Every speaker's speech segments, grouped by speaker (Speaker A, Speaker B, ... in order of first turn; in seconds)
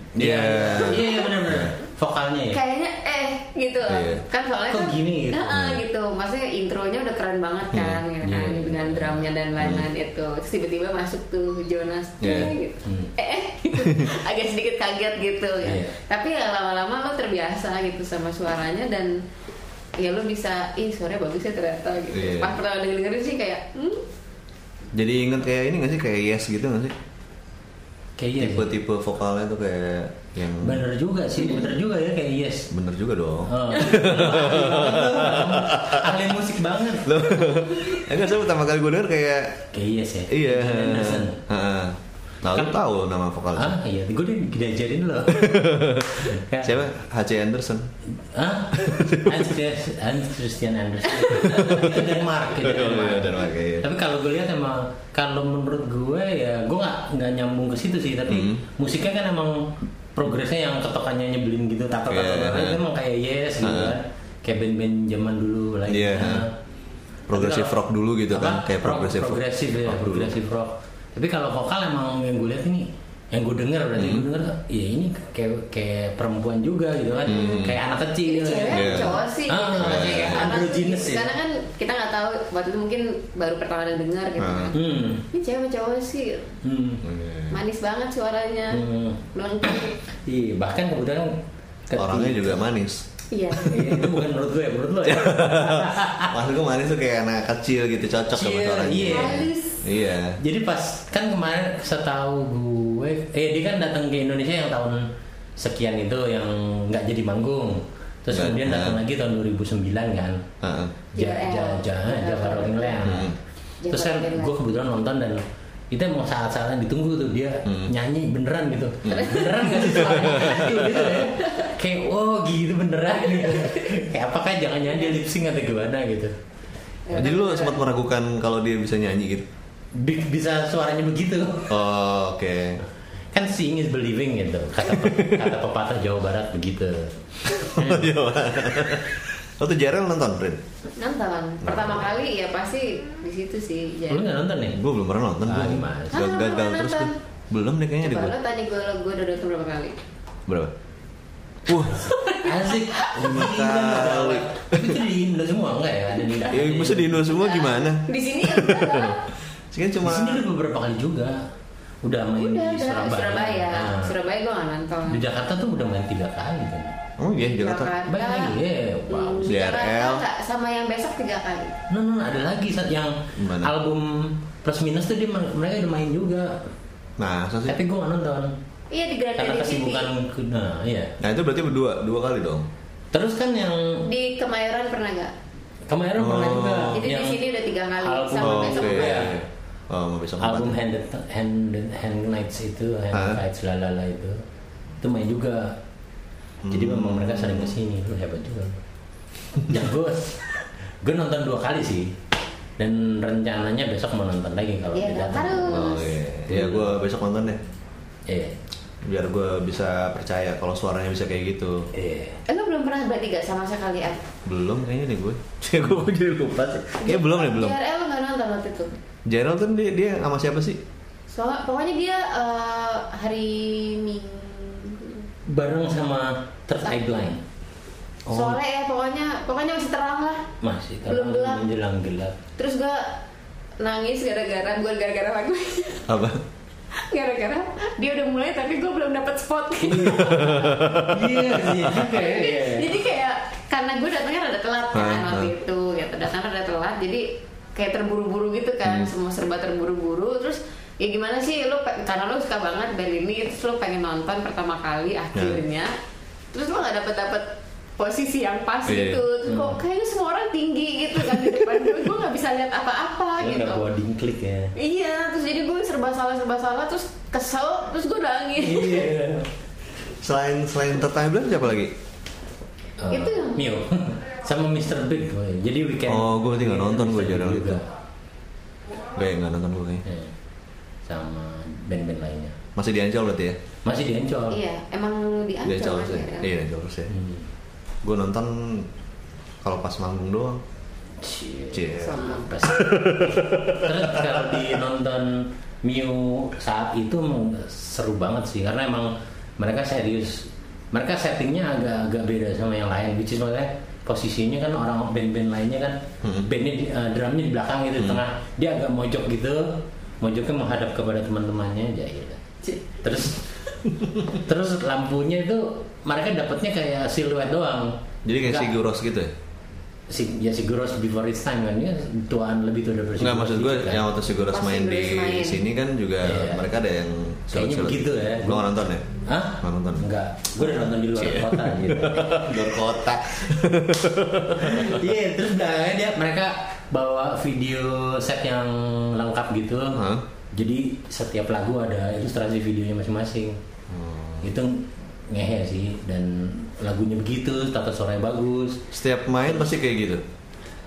Speaker A: 0.2-1.7, 3.9-4.2, 7.7-8.0, 9.6-9.9, 12.2-12.6, 13.8-14.1, 22.1-22.6, 24.9-27.0, 28.4-30.9, 32.7-36.3, 37.0-39.7, 40.3-43.8, 45.3-47.9, 48.8-49.5, 51.4-53.9, 58.3-58.6, 62.1-62.8, 63.6-64.0, 65.9-66.5, 67.3-70.3, 74.0-74.3, 77.3-77.8, 78.7-79.2, 79.8-80.6, 84.4-84.7, 87.0-87.6, 92.0-93.0, 95.0-100.4, 108.3-109.0, 110.6-111.0, 113.0-113.4, 117.7-117.9, 119.0-121.1, 127.1-129.5, 131.7-132.8, 134.9-135.5, 137.6-140.6, 141.6-142.1, 144.7-148.4, 150.5-150.7, 151.7-152.1, 153.2-155.1, 156.5-159.2, 159.7-160.4, 167.2-167.9, 169.4-170.2, 173.4-173.7, 177.2-177.8, 181.2-182.7, 186.2-187.0, 188.4-190.8, 193.1-193.4, 196.6-197.8, 205.7-207.6, 209.0-211.9, 214.4-217.8, 219.3-220.8, 228.3-228.6, 236.1-236.4, 240.0-242.0, 244.9-245.5, 248.8-249.1, 255.3-255.6, 258.9-259.2, 270.2-271.9, 276.1-277.8, 279.1-280.0, 282.8-283.6, 285.6-287.1, 288.0-288.9, 289.6-290.6, 291.7-294.7, 306.2-306.5, 308.0-308.2, 318.2-319.3, 323.2-329.1, 329.6-330.1, 330.6-335.1, 339.9-340.3, 343.9-344.5, 348.9-350.2
Speaker B: 0.2-2.6, 4.7-5.7, 8.2-9.3, 12.8-13.1, 15.6-16.0, 28.2-28.7, 30.6-32.7, 33.5-37.2, 39.7-41.4, 43.5-46.8, 48.2-66.5, 67.3-81.3, 84.7-85.3, 86.6-87.0, 88.7-89.2, 90.1-92.7, 93.7-96.4, 98.3-99.5, 100.4-110.5, 111.1-113.3, 113.9-126.3, 129.9-131.8, 133.3-138.1, 144.1-144.8, 145.4-146.3, 152.1-157.2, 160.0-161.5, 162.0-164.2, 165.1-167.0, 168.1-169.6, 171.9-176.7, 177.7-178.6, 179.3-181.2, 183.1-184.1, 185.9-187.4, 188.0-189.4, 190.4-194.4, 195.0-195.8, 196.7-198.8, 199.6-200.5, 201.0-202.2, 202.8-205.9, 206.5-206.9, 208.3-208.6, 211.9-212.4, 225.5-227.4, 230.6-232.4, 239.9-243.0, 259.5-259.8, 263.4-264.7, 268.6-269.5, 273.0-277.9, 280.1-280.3, 281.1-282.6, 283.9-284.6, 287.1-287.5, 291.2-312.4, 313.0-313.4, 314.3-318.8, 320.1-324.1, 326.2-326.7, 327.5-328.7, 329.3-332.8, 334.6-343.6, 344.4-348.9
Speaker C: 0.8-1.3, 2.5-19.2, 20.0-24.1, 77.2-77.7, 78.2-86.6, 87.5-90.0, 93.3-94.2, 99.1-99.8, 111.2-113.2, 113.8-114.6, 119.1-121.7, 123.5-123.9, 127.1-127.9, 141.0-144.4, 146.1-147.2, 148.0-150.0, 152.1-153.1, 157.2-159.3, 162.4-165.2, 167.4-171.8, 178.9-180.1, 184.1-185.3, 186.9-189.3, 204.9-206.2, 212.5-214.2, 217.0-218.9, 221.3-225.3, 226.9-227.2, 228.3-230.5, 231.1-231.7, 232.6-233.2, 233.8-236.1, 236.9-240.8, 242.0-255.9, 256.5-263.9, 264.8-269.2, 273.1-273.7, 284.5-286.5, 292.0-292.5, 324.5-325.6